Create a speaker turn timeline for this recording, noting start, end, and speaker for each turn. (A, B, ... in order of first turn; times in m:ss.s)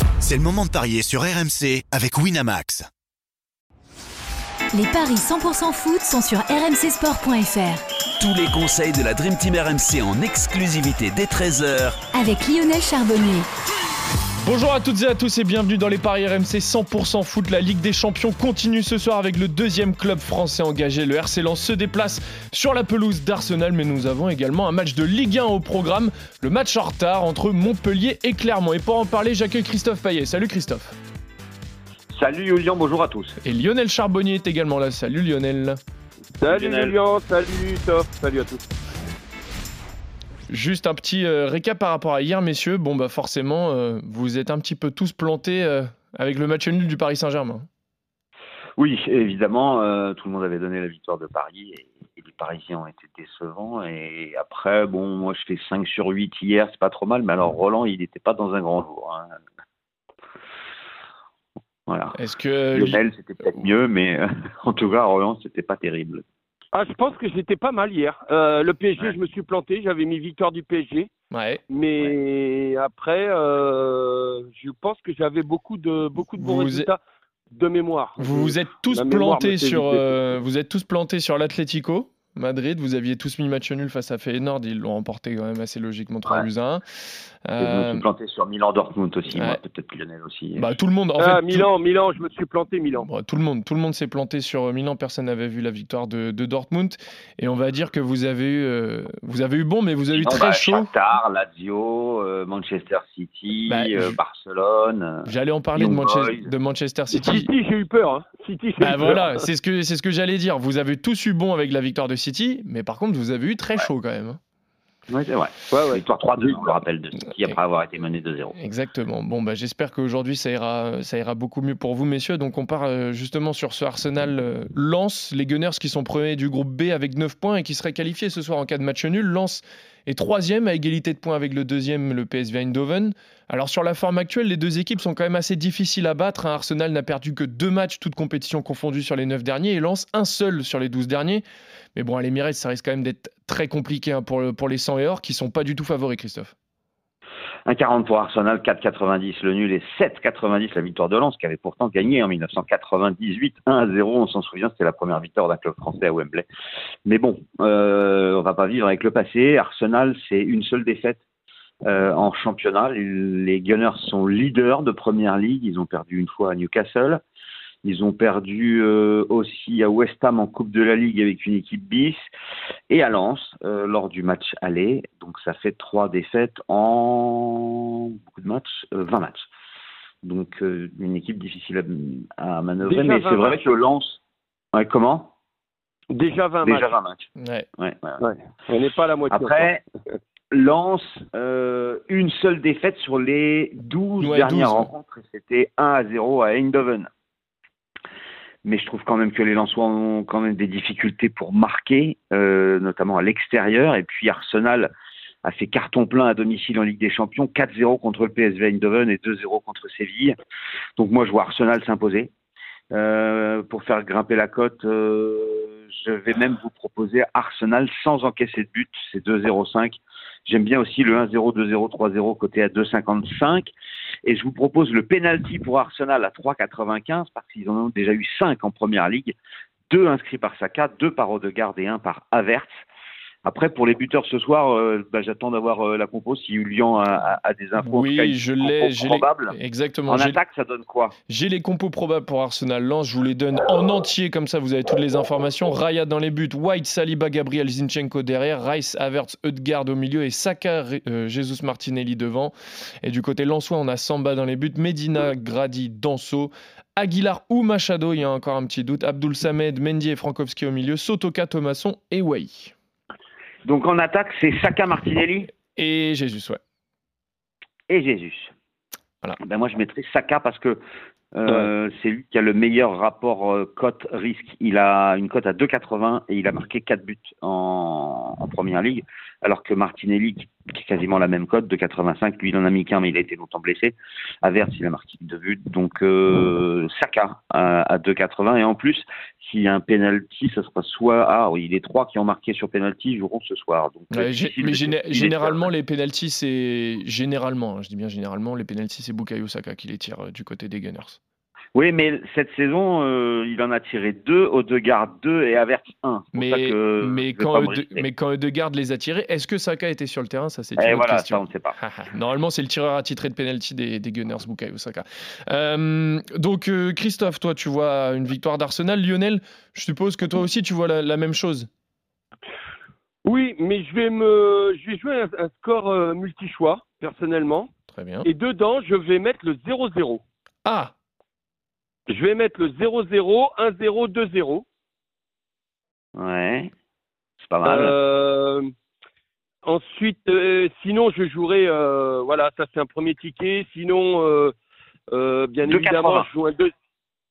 0:00.2-0:02.8 A
0:04.7-0:07.8 B
0:08.2-0:12.0 C
0:12.1-0:13.5 B
0:14.4-0:30.9 D
0:32.1-0:33.4 E
0:33.4-0:35.8 D
0:36.4-0:38.6 F
0:36.5-0:37.0 E
0:40.5-0:47.7 D
0:48.8-0:59.3 E
1:01.9-1:02.2 E
1:02.1-1:03.5 D
1:02.7-1:06.2 E
1:06.7-1:11.1 F
1:11.3-1:11.6 D
1:11.7-1:17.0 F
1:16.4-1:16.9 D
1:17.5-1:20.2 F
1:18.2-1:26.8 D
1:27.4-1:28.1 D
1:27.6-1:30.7 E
1:29.3-1:29.6 D
1:30.6-1:31.7 D
1:31.2-1:33.1 F
1:33.0-1:40.9 D
1:40.1-1:46.5 E
1:43.7-1:44.2 D
1:45.3-1:47.5 D
1:47.1-1:49.4 F
1:48.8-1:54.4 D
1:55.1-1:58.5 E
1:55.7-1:56.8 F
1:58.6-2:21.4 D
2:21.9-2:26.5 D
2:27.7-2:36.5 E
2:37.0-2:41.2 E
2:41.8-2:47.2 E
2:47.8-2:52.2 E
2:52.9-2:59.4 E
3:00.2-3:04.2 E
3:02.8-3:03.6 F
3:04.7-3:05.3 E
3:06.1-3:06.9 F
3:06.6-3:07.2 E
3:07.4-3:07.7 D
3:07.8-3:08.2 E
3:08.2-3:09.8 F
3:09.3-3:09.8 E
3:10.5-3:17.1 E
3:14.2-3:14.9 D
3:18.6-3:24.9 E
3:25.4-3:30.3 E
3:31.0-3:32.3 E
3:32.9-3:43.7 E
3:44.2-3:49.4 E
3:49.9-3:52.7 E
3:53.4-3:59.5 E
3:57.8-4:00.4 D
4:00.1-4:01.1 E
4:01.3-4:22.7 D
4:23.6-4:25.5 E
4:25.7-4:26.6 D
4:27.9-4:28.5 E
4:29.4-4:30.8 E
4:31.3-4:55.7 E
4:54.1-5:01.2 D
5:01.8-5:08.1 E
5:06.3-5:21.7 D
5:10.8-5:11.8 E
5:23.2-5:27.7 F
5:27.9-5:28.3 D
5:28.2-5:30.2 F
5:30.6-5:30.9 D
5:32.1-5:34.6 F
5:36.2-5:36.7 E
5:37.4-5:38.0 E
5:37.6-5:38.7 F
5:39.6-5:44.5 F
5:45.1-5:46.7 F
5:45.6-5:46.3 E